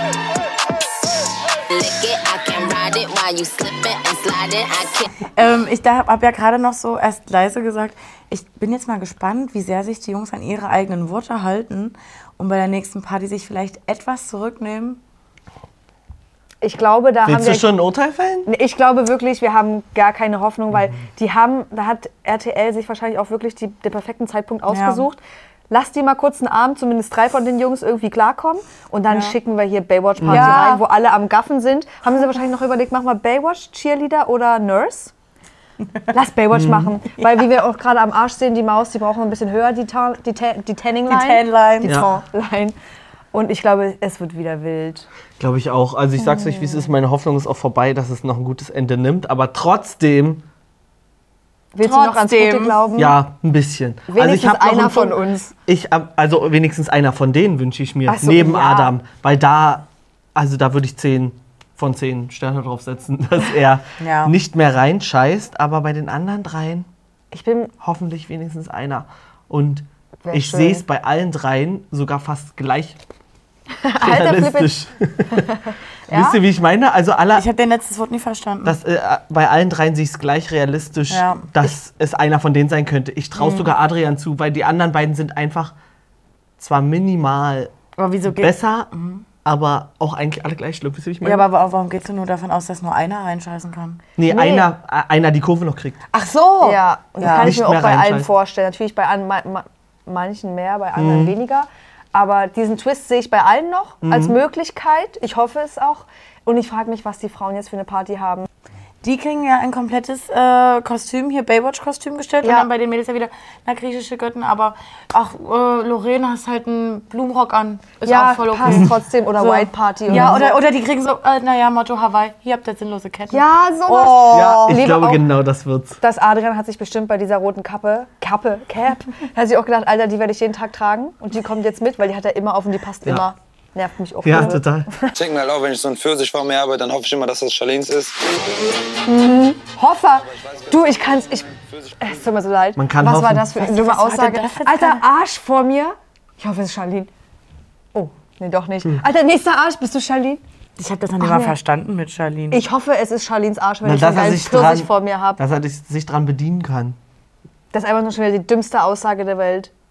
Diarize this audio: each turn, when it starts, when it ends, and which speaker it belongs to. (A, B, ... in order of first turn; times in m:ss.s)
0:01.7-0:05.0 A
0:05.3-0:15.0 B
0:16.6-0:17.8 C
0:17.2-0:18.5 D
0:18.4-0:35.1 C
0:24.7-0:25.0 B
0:30.2-0:30.7 D
0:30.2-0:30.8 B
0:36.1-0:42.7 C
0:36.5-0:36.9 D
0:41.1-0:41.9 B
0:41.8-0:42.1 D
0:43.3-0:45.1 C
0:45.4-0:50.4 D
0:46.2-0:46.8 C
0:51.7-0:53.2 C
0:51.8-0:52.8 B
0:53.0-1:06.9 D
0:54.1-0:55.5 C
0:58.1-0:58.9 C
1:04.0-1:04.3 B
1:07.3-1:07.7 C
1:07.8-1:13.0 D
1:10.2-1:10.8 C
1:13.8-1:14.8 C
1:14.0-1:15.4 D
1:15.3-1:16.4 C
1:16.1-1:17.5 D
1:17.3-1:18.8 B
1:18.6-1:25.7 D
1:21.1-1:21.7 B
1:23.4-1:23.7 B
1:26.6-1:27.7 D
1:28.0-1:29.2 B
1:28.2-1:28.9 D
1:29.4-1:31.4 D
1:31.2-1:34.0 B
1:34.2-1:36.0 D
1:34.3-1:34.6 C
1:36.1-1:37.6 B
1:36.6-1:48.5 C
1:37.2-1:38.3 D
1:41.0-1:41.3 D
1:44.0-1:44.4 D
1:49.0-2:04.8 B
1:52.4-1:52.7 C
1:58.0-2:00.6 C
2:03.3-2:05.2 C
2:04.3-2:06.0 D
2:06.0-2:15.1 C
2:14.2-2:14.9 D
2:15.1-2:18.2 E
2:19.0-2:21.5 C
2:20.3-2:22.1 E
2:22.0-2:27.1 C
2:22.8-2:23.5 D
2:23.6-2:25.0 B
2:27.9-2:30.4 C
2:30.8-2:32.6 B
2:31.2-2:31.5 C
2:32.5-2:35.4 C
2:33.8-2:37.0 D
2:37.7-2:39.7 C